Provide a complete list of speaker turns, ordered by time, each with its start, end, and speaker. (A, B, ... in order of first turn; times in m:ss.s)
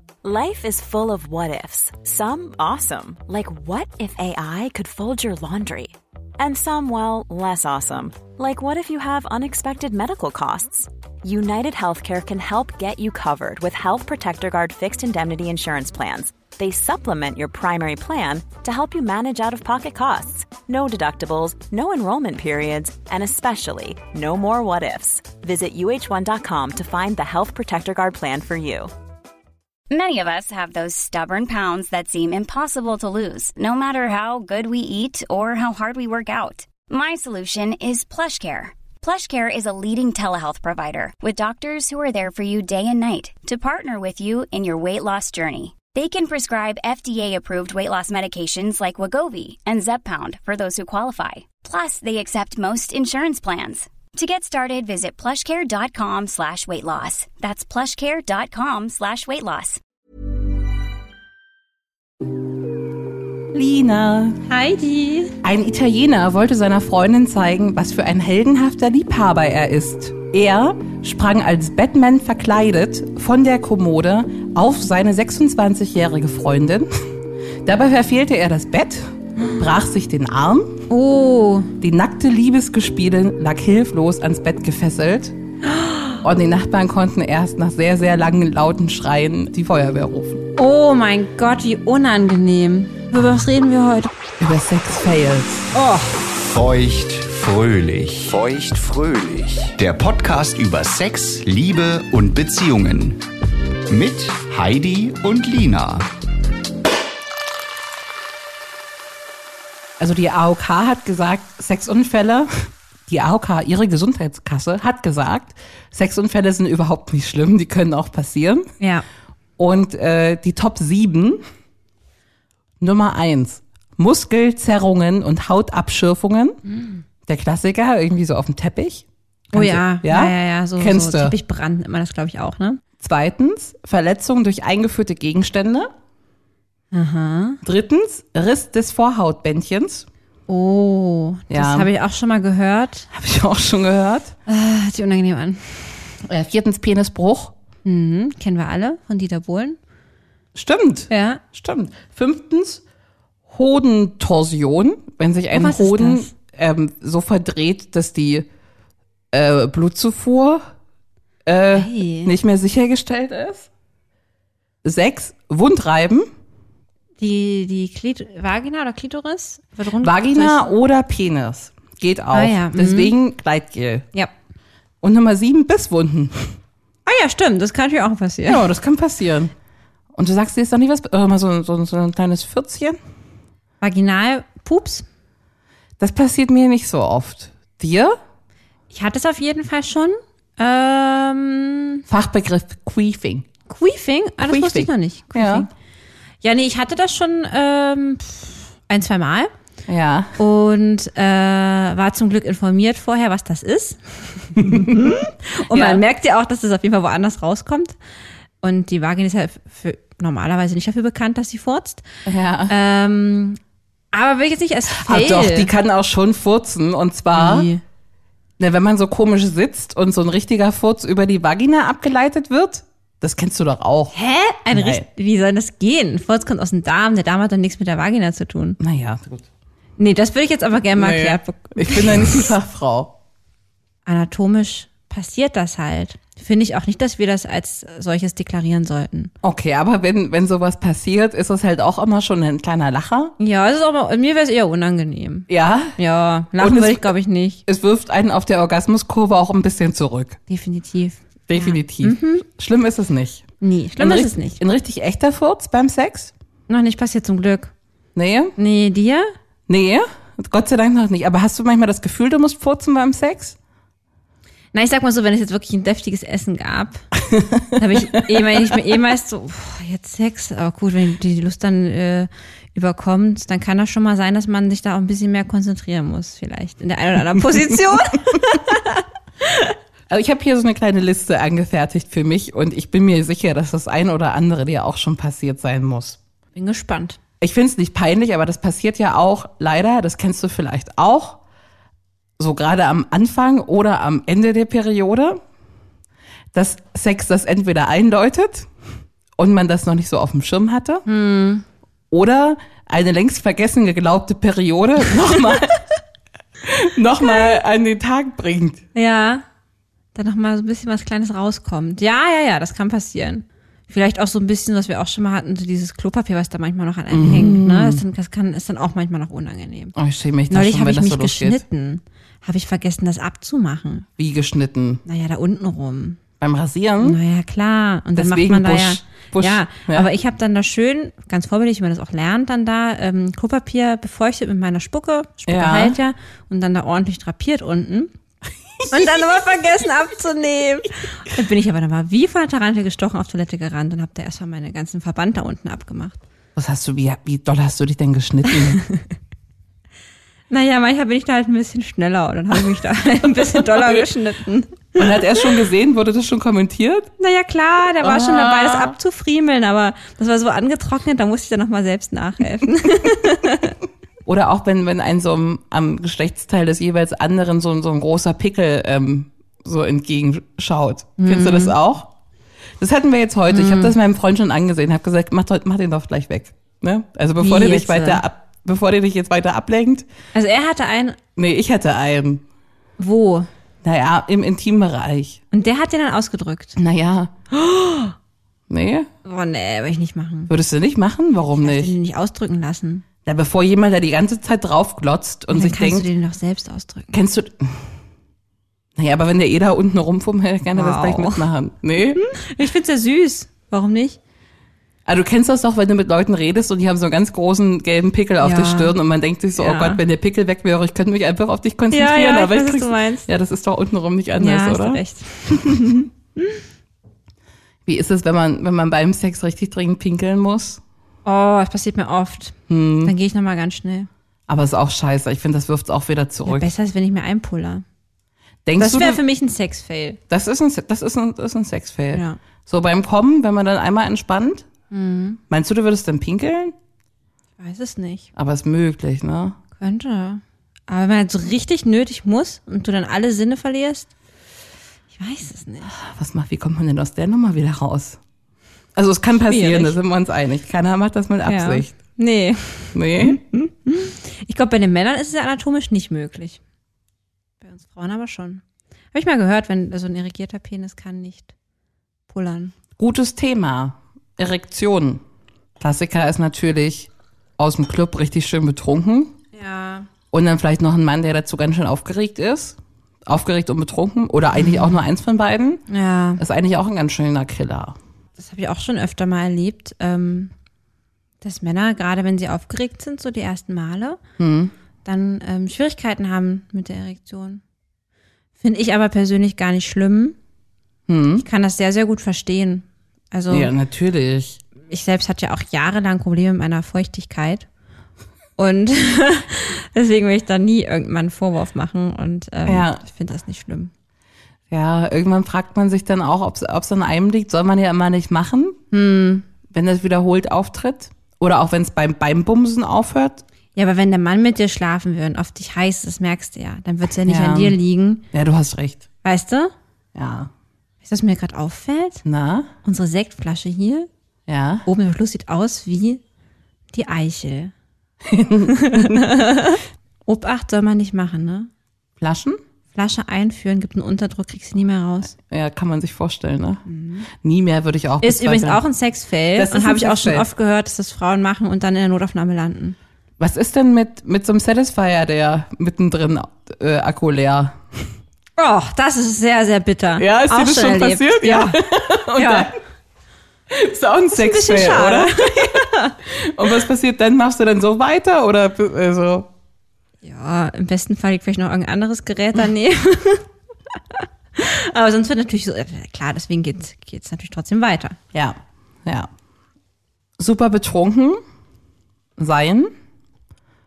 0:00.2-0:28.9 A
0:29.9-0:59.8 B
1:03.5-1:04.4 C
1:04.4-1:05.3 D
1:05.4-1:16.9 C
1:17.6-1:20.8 C
1:20.9-1:21.7 D
1:21.8-1:25.4 C
1:25.6-1:26.2 D
1:26.2-1:30.4 C
1:30.6-1:34.1 D
1:34.4-1:35.7 C
1:35.7-1:36.2 D
1:36.4-1:43.2 E
1:43.9-1:46.1 E
1:50.0-1:58.7 C
1:58.8-1:59.0 D
1:59.6-2:01.4 C
2:02.8-2:06.6 C
2:07.2-2:11.4 C
2:09.5-2:12.8 D
2:13.0-2:15.9 C
2:16.9-2:17.6 D
2:17.6-2:20.1 C
2:20.5-2:23.1 D
2:21.5-2:21.9 C
2:23.1-2:24.3 C
2:24.5-2:26.2 D
2:26.2-2:27.5 C
2:27.8-2:29.8 D
2:30.5-2:32.8 C
2:31.1-2:31.4 D
2:33.5-2:38.5 C
2:35.5-2:36.3 D
2:39.3-2:40.7 C
2:41.4-2:43.7 C
2:41.7-2:42.3 D
2:44.8-2:46.3 C
2:47.2-2:50.7 D
2:50.0-2:54.0 C
2:52.3-2:53.1 D
2:55.0-2:56.6 C
2:57.0-2:58.6 D
2:58.5-2:59.5 C
3:00.1-3:03.0 C
3:03.8-3:05.0 D
3:06.0-3:08.2 C
3:08.9-3:12.0 D
3:12.1-3:13.5 C
3:13.7-3:15.7 D
3:14.4-3:15.7 C
3:16.4-3:19.5 D
3:19.8-3:20.3 C
3:20.4-3:28.0 D
3:24.6-3:26.0 C
3:28.6-3:32.0 D
3:32.2-3:32.7 C
3:32.7-3:33.6 D
3:34.1-3:35.7 D
3:34.9-3:37.7 C
3:37.3-3:37.8 D
3:38.6-3:44.1 C
3:44.1-3:48.8 D
3:44.7-3:45.0 C
3:48.8-3:49.5 C
3:50.0-3:52.5 D
3:51.0-3:53.1 C
3:54.0-3:59.3 D
3:59.4-4:03.3 C
4:03.4-4:07.6 D
4:05.5-4:06.0 C
4:06.6-4:07.1 C
4:07.7-4:10.4 C
4:10.5-4:12.4 D
4:11.5-4:13.4 C
4:13.6-4:14.6 D
4:14.0-4:16.3 C
4:16.7-4:17.7 D
4:18.1-4:18.5 C
4:18.6-4:19.3 D
4:19.7-4:23.6 C
4:24.7-4:27.0 D
4:27.3-4:28.8 C
4:27.8-4:39.7 D
4:40.1-4:46.2 C
4:46.5-4:47.2 D
4:47.4-4:51.4 C
4:52.4-4:55.4 C
4:56.5-4:58.7 C
4:59.4-5:01.0 C
5:01.1-5:01.6 D
5:02.1-5:05.9 C
5:06.6-5:08.8 C
5:08.9-5:09.4 D
5:10.1-5:19.9 D
5:17.1-5:18.0 C
5:19.9-5:21.6 C
5:20.5-5:24.1 D
5:24.2-5:25.0 C
5:25.0-5:26.2 D
5:26.4-5:27.2 C
5:27.0-5:38.1 D
5:28.1-5:30.1 C
5:35.5-5:36.0 C
5:38.9-5:46.2 D
5:46.6-5:48.8 C
5:48.5-5:49.0 D
5:50.5-5:55.1 D
5:53.3-5:54.0 C
5:54.9-5:57.1 C
5:57.2-6:03.8 D
5:58.0-5:58.9 C
6:04.2-6:12.1 C
6:11.2-6:11.7 D
6:12.8-6:20.0 C
6:13.5-6:13.9 D
6:17.4-6:18.2 D
6:20.3-6:21.2 D
6:21.4-6:22.4 C
6:23.0-6:23.5 D
6:23.8-6:25.4 C
6:25.5-6:26.8 D
6:26.8-6:27.3 C
6:27.5-6:28.1 D
6:28.7-6:29.1 C
6:29.2-6:30.5 D
6:30.5-6:31.9 C
6:31.6-6:33.0 D
6:33.2-6:36.1 C
6:35.5-6:37.1 D
6:37.1-6:37.9 C
6:39.0-6:42.2 C
6:40.7-6:41.5 D
6:42.2-6:44.2 D
6:45.0-6:55.8 C
6:48.4-6:48.9 D
6:49.6-6:50.0 D
6:51.9-6:53.3 D
6:54.4-6:56.6 D
6:57.8-7:00.8 C
7:01.2-7:04.1 D
7:02.7-7:03.1 C
7:04.5-7:06.7 C
7:06.4-7:07.8 D
7:08.6-7:09.2 C
7:08.8-7:10.2 D
7:10.3-7:14.7 C
7:12.1-7:12.4 D
7:14.9-7:15.4 D
7:15.5-7:16.7 C
7:17.6-7:18.3 D
7:18.4-7:19.6 C
7:19.8-7:24.1 D
7:25.1-7:25.9 D
7:25.9-7:28.2 C
7:28.9-7:31.9 C
7:29.5-7:29.9 D
7:31.4-7:36.6 D
7:32.9-7:33.4 C
7:37.6-7:41.5 D
7:42.3-7:42.7 D
7:43.0-7:45.2 C
7:45.8-7:49.3 C
7:49.5-7:50.1 D
7:50.3-7:55.8 C
7:54.6-7:54.9 D
7:55.9-7:56.4 D
7:56.4-7:58.0 C
7:58.4-8:00.5 D
8:01.4-8:04.2 D
8:04.4-8:04.7 C
8:05.0-8:07.6 D
8:08.6-8:10.4 D
8:11.1-8:11.4 C
8:11.4-8:13.7 D
8:13.5-8:14.6 C
8:14.9-8:17.6 D
8:18.6-8:23.9 D
8:22.6-8:23.0 C
8:24.7-8:28.8 C
8:28.9-8:29.4 D
8:29.7-8:33.4 C
8:33.7-8:38.2 D
8:37.2-8:37.8 C
8:38.3-8:39.0 C
8:39.2-8:39.7 D
8:40.1-8:40.5 C
8:41.0-8:42.2 D
8:42.2-8:42.7 C
8:42.8-8:44.1 D
8:44.5-8:44.8 C
8:44.8-8:46.2 D
8:46.9-8:47.7 D
8:48.2-8:49.3 C
8:48.7-8:51.7 D
8:52.2-8:52.6 C
8:52.9-8:55.3 D
8:55.4-8:56.8 C
8:56.8-8:57.3 D
8:57.3-8:58.8 C
8:58.2-9:03.0 D
8:59.5-9:00.5 C
9:03.4-9:08.0 C
9:08.6-9:11.8 D
9:10.2-9:12.8 C
9:12.3-9:12.7 D
9:13.7-9:19.5 C
9:14.3-9:16.2 D
9:20.2-9:23.4 D
9:24.2-9:28.2 D
9:28.3-9:29.3 C
9:30.4-9:31.4 C
9:32.4-9:32.9 C